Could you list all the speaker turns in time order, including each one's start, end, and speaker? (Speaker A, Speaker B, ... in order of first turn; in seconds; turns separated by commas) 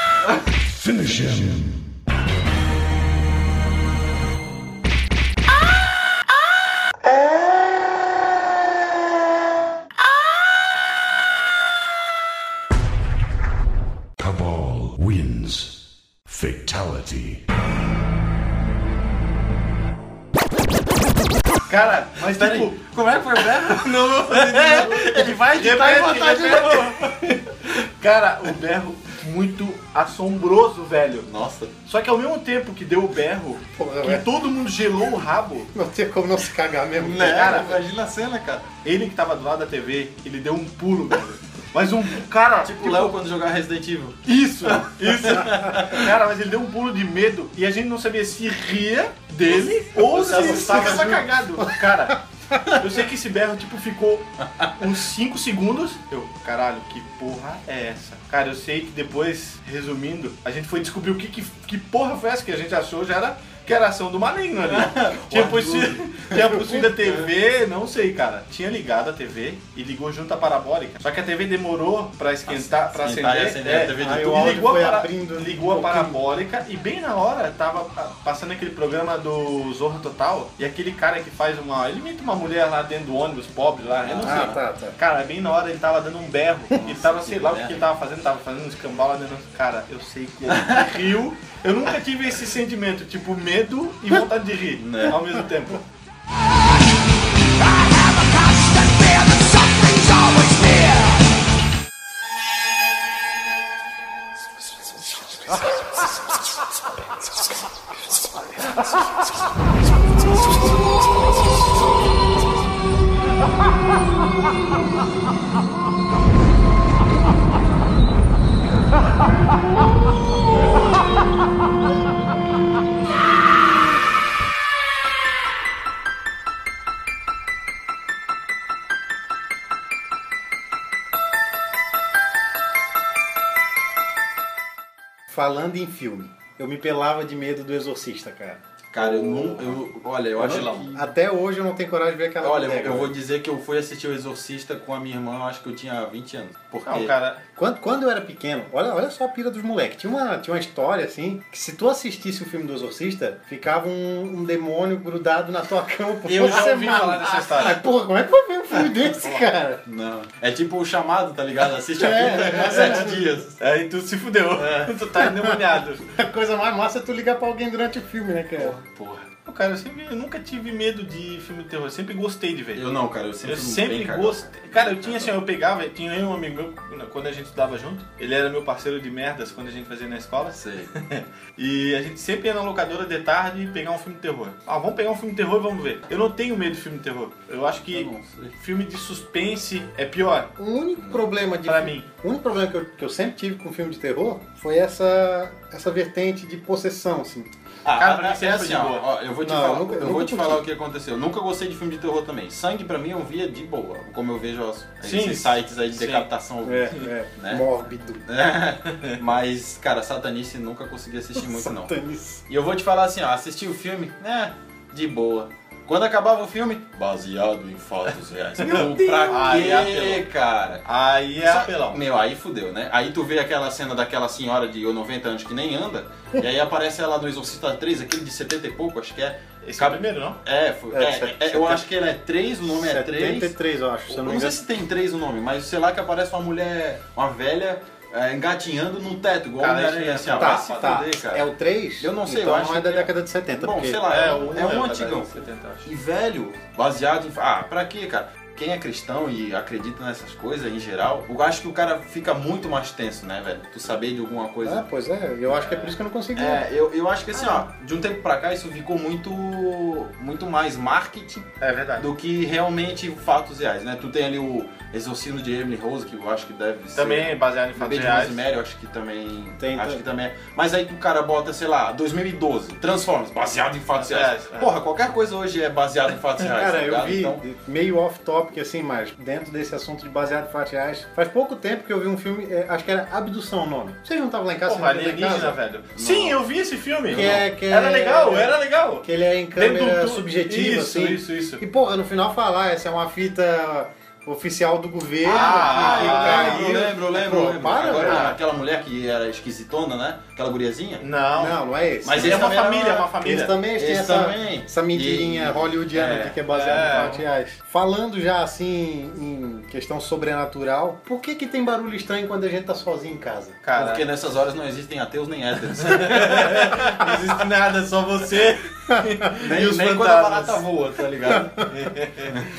Speaker A: 0.5-2.1, Speaker B: 7.2-7.5, Speaker A: 14.2-17.5, Speaker C: 21.7-22.8, Speaker B: 22.1-27.2, Speaker C: 23.7-31.3, Speaker B: 31.2-31.7, Speaker C: 31.8-35.7, Speaker D: 33.8-34.3, Speaker D: 35.7-37.6, Speaker B: 36.9-38.7, Speaker C: 37.2-37.8, Speaker C: 38.8-43.2, Speaker B: 42.6-46.1, Speaker C: 44.2-52.2, Speaker B: 49.5-51.2, Speaker D: 50.3-51.7, Speaker C: 52.7-95.8, Speaker B: 64.6-67.3, Speaker B: 72.5-74.5, Speaker D: 74.0-76.2, Speaker B: 84.0-84.6, Speaker D: 84.2-85.0, Speaker B: 86.7-87.8, Speaker B: 90.5-91.0, Speaker B: 94.8-95.2, Speaker D: 135.3-138.6, Speaker B: 138.9-141.1, Speaker D: 140.4-143.1, Speaker C: 140.4-140.9, Speaker B: 142.4-147.2, Speaker C: 146.8-147.4, Speaker D: 147.6-159.8, Speaker C: 156.2-157.8, Speaker B: 159.8-163.6, Speaker D: 162.0-163.3, Speaker C: 163.6-166.1, Speaker B: 164.5-164.9, Speaker D: 165.2-168.7, Speaker B: 168.7-169.3, Speaker C: 169.4-172.9, Speaker B: 172.7-175.4, Speaker C: 173.4-190.5, Speaker B: 180.5-180.9, Speaker B: 187.9-188.5, Speaker D: 190.6-197.5, Speaker B: 191.0-191.2, Speaker C: 191.7-192.1, Speaker B: 197.8-207.6, Speaker C: 197.9-199.1, Speaker D: 199.4-200.6, Speaker C: 205.0-206.3, Speaker D: 206.6-208.2, Speaker B: 208.2-211.9, Speaker C: 208.9-209.2, Speaker D: 211.3-212.4, Speaker B: 212.5-220.8, Speaker D: 218.6-219.5, Speaker C: 218.7-220.2, Speaker C: 220.8-222.0, Speaker B: 221.4-233.5, Speaker C: 229.6-230.4, Speaker D: 230.9-231.8, Speaker D: 232.8-234.6, Speaker B: 234.1-241.5, Speaker C: 239.6-240.7, Speaker D: 240.3-244.0, Speaker B: 242.0-254.8, Speaker C: 244.1-245.9, Speaker D: 254.6-256.6, Speaker C: 255.5-255.9, Speaker B: 256.4-277.4, Speaker D: 257.3-257.6, Speaker C: 261.6-262.1, Speaker C: 266.9-268.4, Speaker D: 269.6-270.0, Speaker C: 273.9-274.7, Speaker D: 276.4-285.6, Speaker C: 284.6-291.6, Speaker B: 285.9-286.4, Speaker D: 287.1-298.4, Speaker B: 287.1-287.4, Speaker B: 295.2-301.0, Speaker C: 295.2-296.9, Speaker C: 301.0-301.6, Speaker D: 301.4-302.6, Speaker B: 302.0-303.1, Speaker C: 302.1-303.5, Speaker D: 303.2-313.6, Speaker B: 303.8-306.4, Speaker C: 306.5-307.2, Speaker C: 313.6-314.1, Speaker B: 313.8-316.8, Speaker C: 315.8-320.6, Speaker D: 318.9-319.2, Speaker B: 319.4-321.6, Speaker D: 321.4-321.6, Speaker C: 321.7-322.4